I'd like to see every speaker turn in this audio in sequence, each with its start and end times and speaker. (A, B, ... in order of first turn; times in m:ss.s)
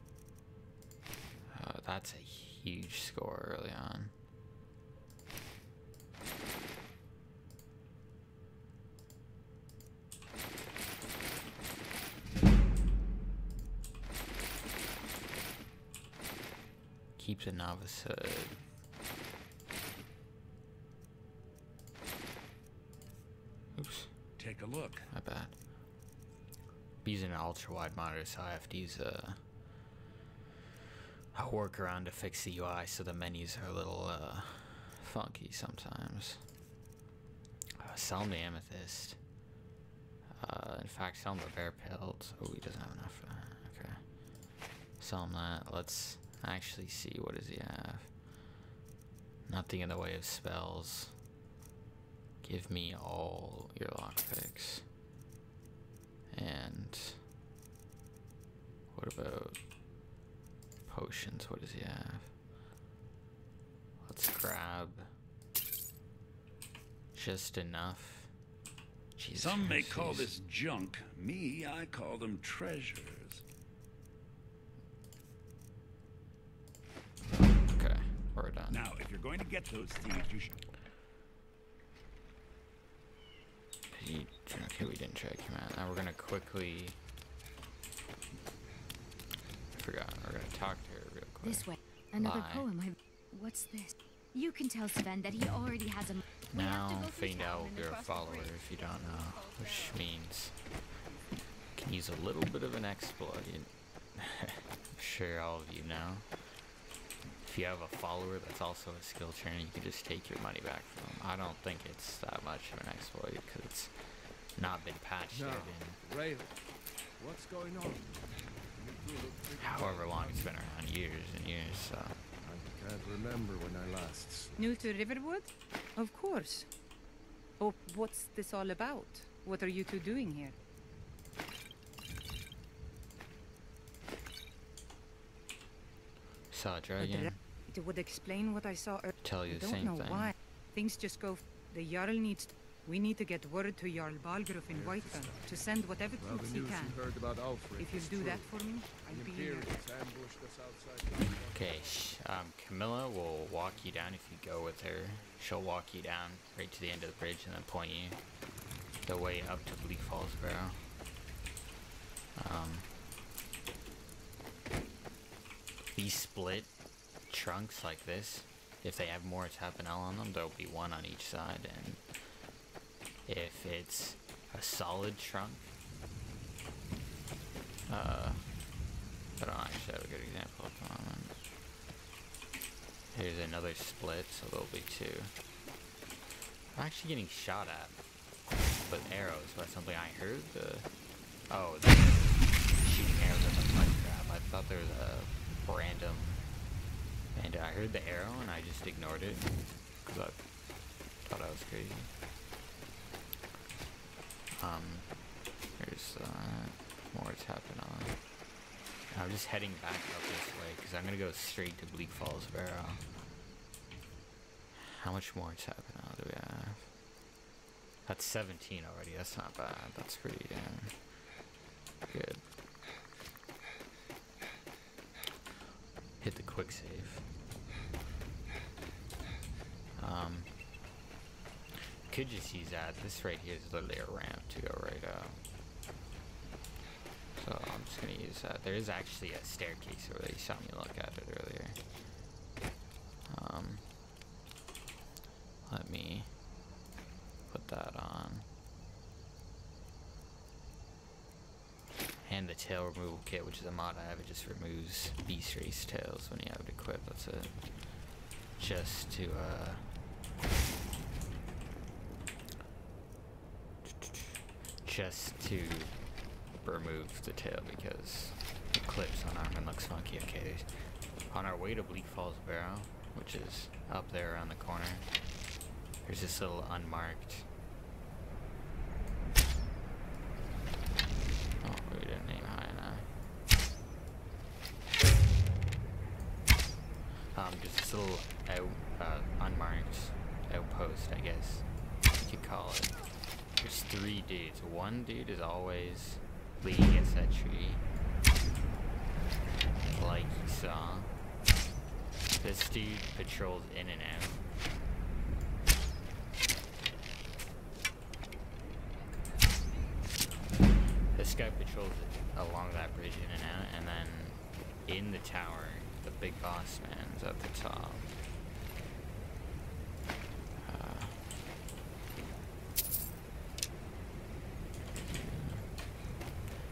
0:01.5-0:04.1 A
0:17.2-0:18.6 A
0:23.7-0:24.1 A
0:24.4-0:25.1 B
0:25.1-0:25.5 A
0:27.0-0:29.4 A
0:31.3-0:36.4 A
0:37.8-0:39.2 A
0:40.4-0:44.0 A
0:45.0-0:48.1 A
0:49.5-0:51.1 A
0:52.4-0:54.8 A
0:56.3-0:57.2 A
0:58.9-0:59.6 A
1:00.9-1:02.3 A
1:04.0-1:05.1 A
1:07.1-1:08.3 A
1:09.2-1:10.3 A
1:09.3-1:13.4 B
1:17.3-1:18.8 A
1:18.7-1:20.5 B
1:23.9-1:27.0 A
1:29.7-1:32.7 A
1:31.4-1:40.0 C
1:36.5-1:40.5 A
1:41.8-1:46.3 A
1:47.4-1:53.9 A
1:54.6-1:56.0 A
1:55.3-1:56.6 D
1:57.2-1:58.1 D
1:58.7-2:00.5 D
1:59.6-2:02.2 A
2:02.4-2:04.7 D
2:04.6-2:06.7 E
2:07.6-2:10.5 E
2:16.5-2:17.3 A
2:17.0-2:27.0 E
2:19.2-2:20.3 A
2:24.7-2:32.0 D
2:27.8-2:29.7 E
2:31.5-2:38.2 A
2:33.6-2:35.4 D
2:39.0-2:40.8 A
2:42.4-2:42.9 A
2:45.9-2:46.7 A
2:47.3-2:52.0 A
2:53.3-2:55.7 A
2:57.9-2:58.4 A
2:59.4-3:01.3 A
3:03.1-3:05.3 A
3:06.7-3:08.0 A
3:08.9-3:10.9 A
3:11.5-3:16.4 A
3:17.4-3:19.5 A
3:20.0-3:20.4 A
3:21.2-3:22.1 A
3:24.6-3:25.1 A
3:25.8-3:28.2 A
3:29.1-3:33.0 A
3:34.8-3:36.9 A
3:38.0-3:40.9 A
3:42.1-3:42.4 A
3:46.2-3:47.2 A
3:50.0-3:50.5 A
3:52.1-3:55.4 A
3:57.4-4:01.8 A
4:03.3-4:03.8 A
4:05.7-4:06.3 A
4:07.5-4:08.4 A
4:12.2-4:17.6 A
4:18.6-4:19.8 A
4:23.8-4:25.9 A
4:26.6-4:30.7 A
4:31.3-4:35.1 A
4:36.0-4:37.5 A
4:41.6-4:43.1 A
4:47.3-4:53.0 A
4:53.6-4:57.8 A
4:59.9-5:01.1 A
5:02.4-5:04.4 A
5:11.1-5:18.1 A
5:20.6-5:21.2 A
5:25.1-5:25.6 A